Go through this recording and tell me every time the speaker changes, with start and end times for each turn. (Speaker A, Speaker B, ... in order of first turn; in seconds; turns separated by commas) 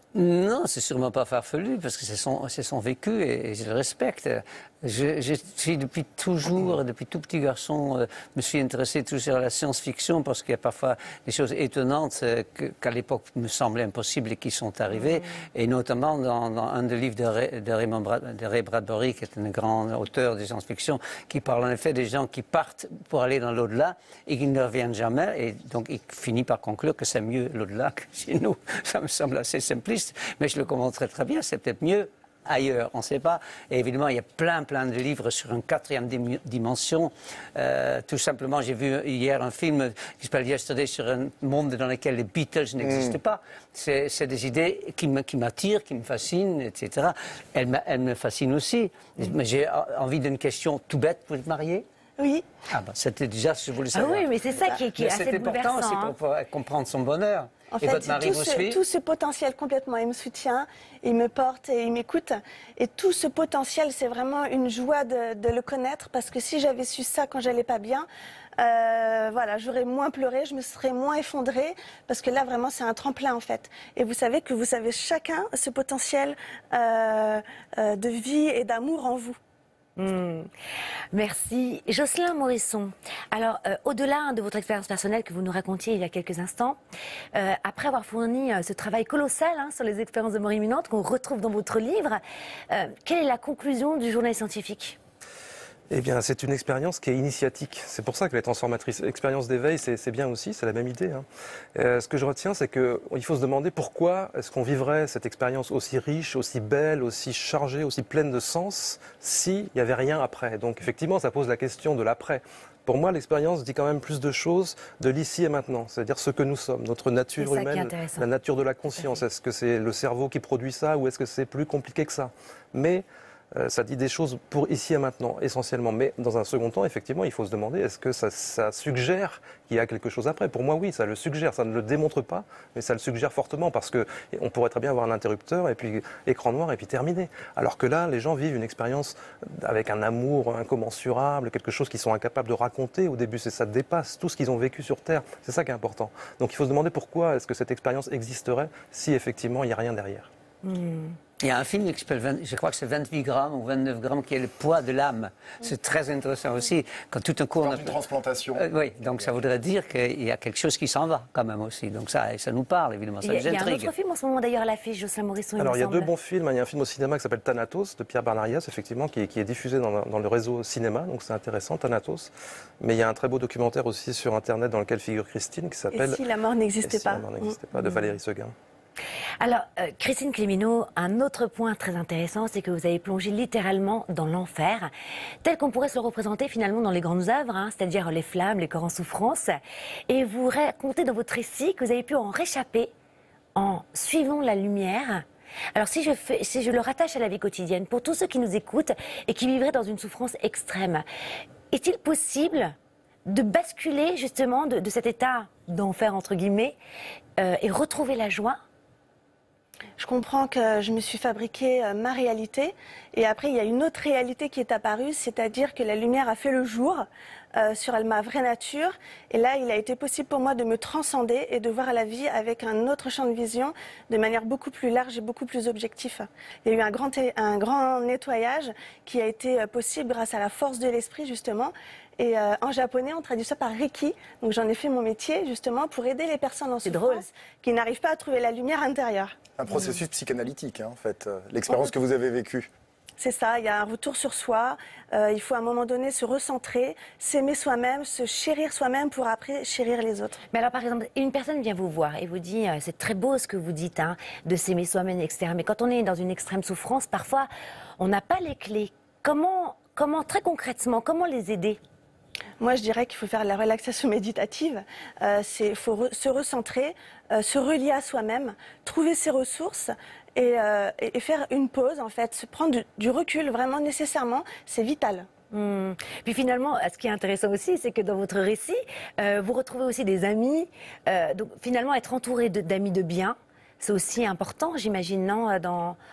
Speaker A: 0.1-51.9, Speaker B: 42.8-43.2, Speaker C: 52.2-52.5, Speaker A: 52.7-58.8, Speaker D: 54.0-56.1, Speaker C: 57.8-68.1, Speaker C: 68.6-79.4, Speaker D: 80.0-80.5, Speaker D: 81.1-86.8, Speaker D: 87.3-95.0, Speaker E: 95.9-150.3, Speaker D: 117.4-118.3, Speaker D: 150.6-151.2, Speaker A: 151.4-158.0, Speaker B: 157.6-158.6, Speaker A: 158.6-163.9, Speaker D: 163.2-166.1, Speaker E: 165.6-176.2, Speaker C: 175.9-177.6, Speaker E: 176.8-178.5, Speaker D: 179.4-184.9, Speaker D: 185.4-189.6, Speaker D: 190.1-192.9, Speaker D: 193.6-201.0, Speaker D: 201.7-202.7, Speaker D: 203.3-206.8, Speaker D: 207.4-208.6, Speaker C: 210.0-239.4, Speaker D: 236.8-237.2, Speaker B: 239.6-242.7, Speaker C: 243.2-250.4, Speaker D: 250.5-261.8, Speaker C: 262.6-275.3, Speaker D: 275.5-286.0